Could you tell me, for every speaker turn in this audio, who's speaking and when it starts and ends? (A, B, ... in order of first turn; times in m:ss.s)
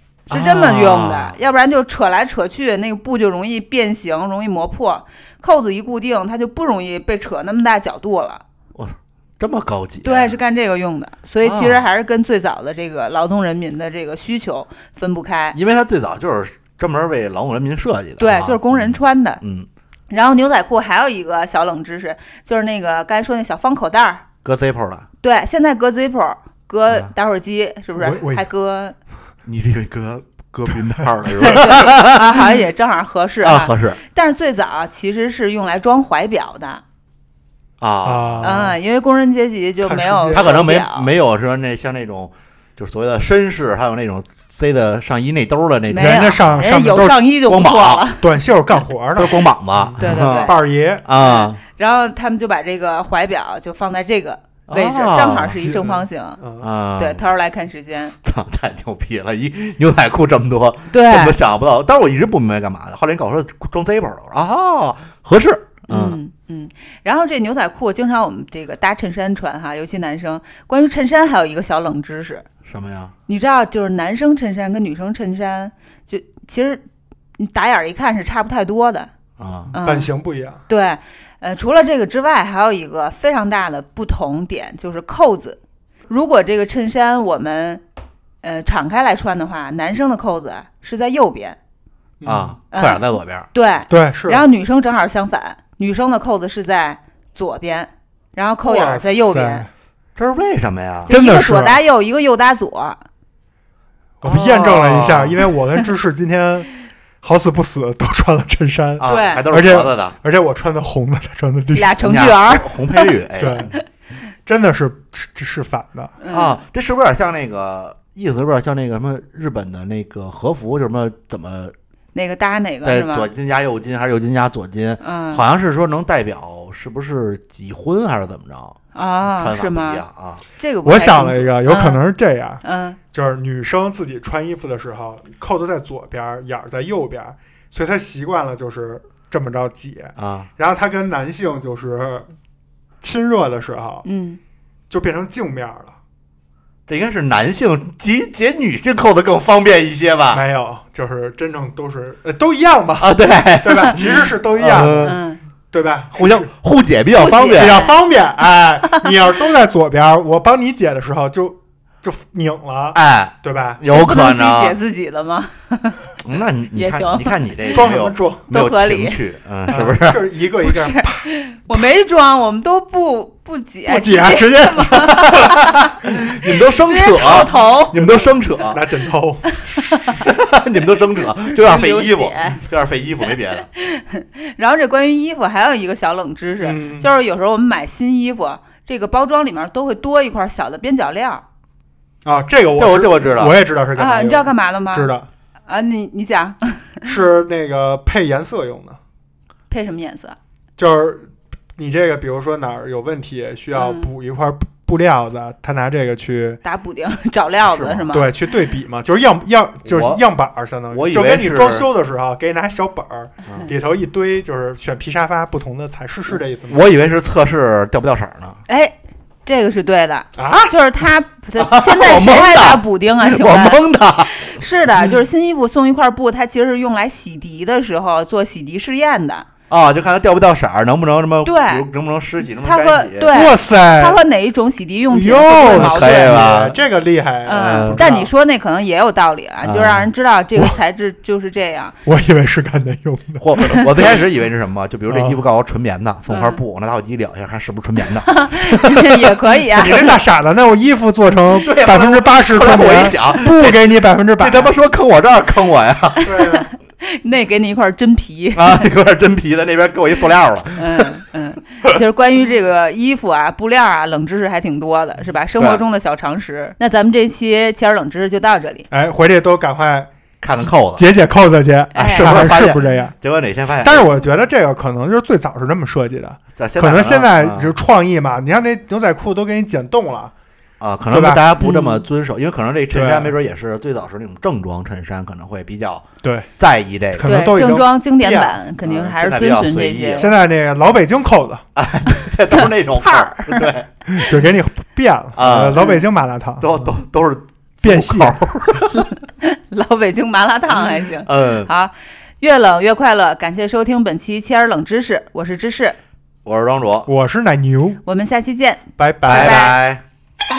0:00.3-0:08.4 A
0:00.3-0:01.4 B
0:08.7-0:10.4 B
0:10.0-0:15.6 A
0:11.4-0:11.8 B
0:15.5-0:19.7 B
0:18.2-0:19.4 A
0:20.1-0:24.2 A
0:24.4-0:25.0 B
0:25.2-0:29.0 A
0:27.9-0:28.4 C
0:29.4-0:32.4 B
0:31.4-0:36.8 A
0:33.4-0:34.0 B
0:37.8-0:38.6 B
0:38.0-0:38.8 C
0:38.4-0:41.1 A
0:39.8-0:40.6 C
0:40.3-0:46.4 B
0:45.9-0:48.3 A
0:46.0-0:47.2 C
0:47.5-0:48.0 B
0:48.2-0:51.0 C
0:49.2-0:51.6 B
0:50.0-0:56.4 A
0:54.7-0:55.6 B
0:55.4-0:56.7 C
0:56.6-0:57.2 B
0:57.0-0:58.1 A
0:58.2-1:06.2 B
1:00.9-1:01.4 A
1:05.9-1:12.4 A
1:12.6-1:13.1 B
1:13.3-1:16.8 A
1:17.4-1:19.1 A
1:19.4-1:19.7 B
1:19.7-1:20.1 A
1:19.8-1:20.6 C
1:20.7-1:27.8 A
1:28.4-1:31.6 A
1:32.2-1:32.6 C
1:32.2-1:33.5 B
1:32.7-1:39.6 A
1:33.9-1:34.4 C
1:38.6-1:39.7 C
1:40.2-1:41.1 B
1:41.0-1:41.8 C
1:41.1-1:43.0 A
1:44.2-1:46.7 C
1:44.2-1:45.4 B
1:47.2-1:52.0 C
1:49.0-1:50.2 B
1:49.0-1:49.5 A
1:51.7-1:53.1 A
1:52.0-1:53.8 B
1:53.4-1:53.7 C
1:54.4-1:56.1 C
1:56.2-1:56.6 A
1:56.3-2:01.7 B
2:02.1-2:03.3 A
2:02.8-2:10.4 B
2:05.0-2:05.4 A
2:08.9-2:10.0 A
2:10.6-2:12.0 A
2:10.8-2:22.3 C
2:12.6-2:13.0 A
2:20.2-2:20.5 B
2:23.0-2:24.0 C
2:24.0-2:24.4 A
2:24.9-2:25.9 C
2:26.9-2:30.4 B
2:30.3-2:35.2 C
2:33.0-2:35.2 B
2:35.0-2:35.4 A
2:35.7-2:36.5 C
2:36.1-2:37.9 B
2:37.1-2:38.0 A
2:37.5-2:43.8 C
2:42.9-2:44.8 B
2:43.8-2:46.1 A
2:46.2-2:50.3 B
2:46.7-2:47.8 A
2:47.7-2:48.5 C
2:48.5-2:49.2 A
2:49.7-2:51.7 C
2:50.6-2:56.0 A
2:53.9-2:55.5 C
2:55.3-2:58.8 B
2:56.8-2:58.0 A
2:57.9-3:00.1 C
3:00.2-3:03.7 B
3:01.5-3:02.6 A
3:03.7-3:11.4 A
3:06.6-3:07.1 C
3:12.2-3:15.3 C
3:12.8-3:13.6 B
3:13.9-3:15.1 A
3:15.6-3:17.0 A
3:17.0-3:19.0 C
3:19.7-3:20.4 A
3:20.8-3:26.6 C
3:23.7-3:24.1 A
3:26.6-3:28.3 A
3:27.6-3:28.1 B
3:28.1-3:36.8 C
3:29.8-3:30.2 B
3:30.9-3:31.9 B
3:36.7-3:38.6 B
3:38.7-3:49.5 A
3:40.4-3:40.7 C
3:41.6-3:44.6 B
3:49.7-3:53.3 B
3:51.4-3:51.9 A
3:52.6-3:56.4 A
3:53.3-3:54.2 C
3:55.1-3:58.3 C
3:55.6-3:56.8 B
3:57.4-4:02.0 A
3:57.5-3:58.1 B
3:59.6-4:00.1 B
4:02.0-4:04.2 C
4:03.4-4:09.4 B
4:05.1-4:05.4 C
4:06.3-4:06.6 A
4:08.2-4:10.1 A
4:09.7-4:14.7 C
4:11.5-4:16.3 B
4:16.2-4:16.7 C
4:16.3-4:18.9 A
4:18.5-4:21.2 B
4:20.8-4:28.9 A
4:28.9-4:30.1 C
4:30.4-4:31.0 B
4:30.6-4:33.2 C
4:31.9-4:32.5 A
4:32.0-4:34.1 B
4:33.8-4:40.3 C
4:36.6-4:37.7 B
4:40.8-4:46.0 B
4:41.1-4:41.5 C
4:41.6-4:42.0 A
4:42.9-4:43.3 C
4:46.2-4:46.5 C
4:46.6-4:47.4 B
4:47.1-4:48.6 C
4:47.2-4:50.3 A
4:48.8-4:50.3 B
4:50.2-4:51.6 C
4:51.7-4:53.9 B
4:52.5-4:53.7 A
4:54.1-4:56.8 C
4:55.4-4:55.9 B
4:55.7-4:56.0 A
4:56.6-4:59.0 B
4:57.8-4:58.4 C
4:59.0-5:06.0 A
5:00.8-5:01.7 B
5:06.4-5:07.1 B
5:07.1-5:08.0 C
5:08.0-5:09.8 A
5:09.0-5:09.7 C
5:09.2-5:10.0 B